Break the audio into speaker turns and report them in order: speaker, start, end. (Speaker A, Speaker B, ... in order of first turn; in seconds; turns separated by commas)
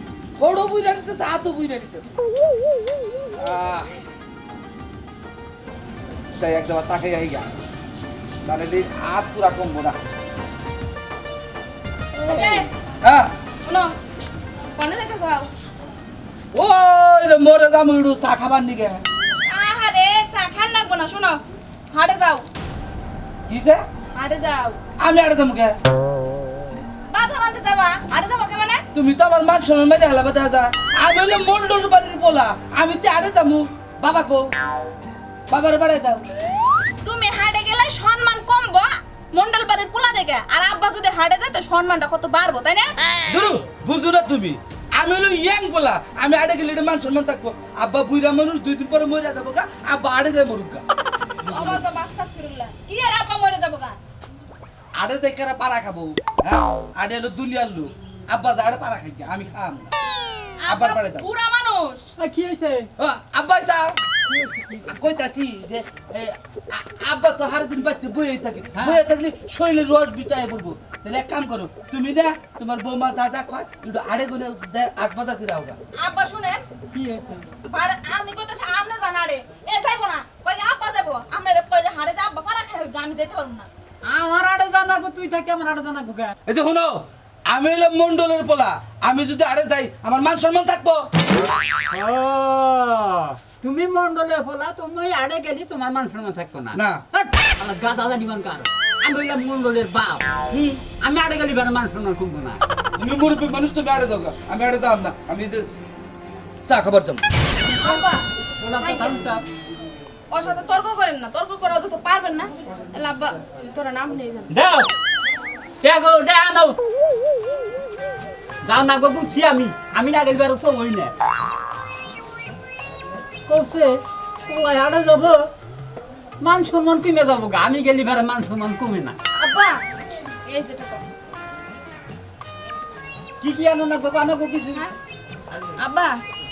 Speaker A: 0.4-2.2, Speaker A: 3.4-4.0, Speaker A: 6.4-7.5, Speaker A: 8.4-10.0, Speaker B: 12.2-12.7, Speaker A: 13.0-13.3, Speaker B: 13.7-13.9, Speaker B: 14.8-15.5, Speaker A: 16.5-19.0, Speaker B: 19.5-22.4, Speaker A: 23.5-23.8, Speaker B: 24.1-24.8, Speaker A: 25.0-25.8, Speaker B: 27.1-28.8, Speaker A: 28.9-34.4, Speaker A: 35.5-36.3, Speaker B: 37.0-42.9, Speaker A: 43.3-50.9, Speaker A: 51.4-51.9, Speaker B: 51.5-54.0, Speaker A: 55.0-59.9, Speaker B: 60.6-62.1, Speaker A: 60.7-61.3, Speaker C: 62.2-62.9, Speaker A: 63.0-64.0, Speaker C: 64.2-65.0, Speaker A: 64.9-75.8, Speaker C: 68.7-69.0, Speaker B: 76.0-76.6, Speaker C: 76.9-77.5, Speaker B: 77.7-83.7, Speaker C: 84.1-86.3, Speaker A: 86.5-91.1, Speaker C: 91.9-100.3, Speaker A: 96.7-97.0, Speaker A: 100.5-100.8, Speaker C: 101.0-102.6, Speaker A: 103.0-105.7, Speaker A: 106.7-107.3, Speaker B: 107.7-108.3, Speaker C: 107.7-108.0, Speaker C: 108.6-109.4, Speaker B: 108.8-109.3, Speaker B: 110.3-114.5, Speaker C: 114.5-114.9, Speaker C: 115.8-116.8, Speaker C: 118.6-121.2, Speaker C: 123.5-125.4, Speaker C: 126.4-129.2, Speaker B: 129.3-129.8, Speaker B: 130.4-131.1, Speaker C: 133.4-134.8, Speaker B: 135.8-136.2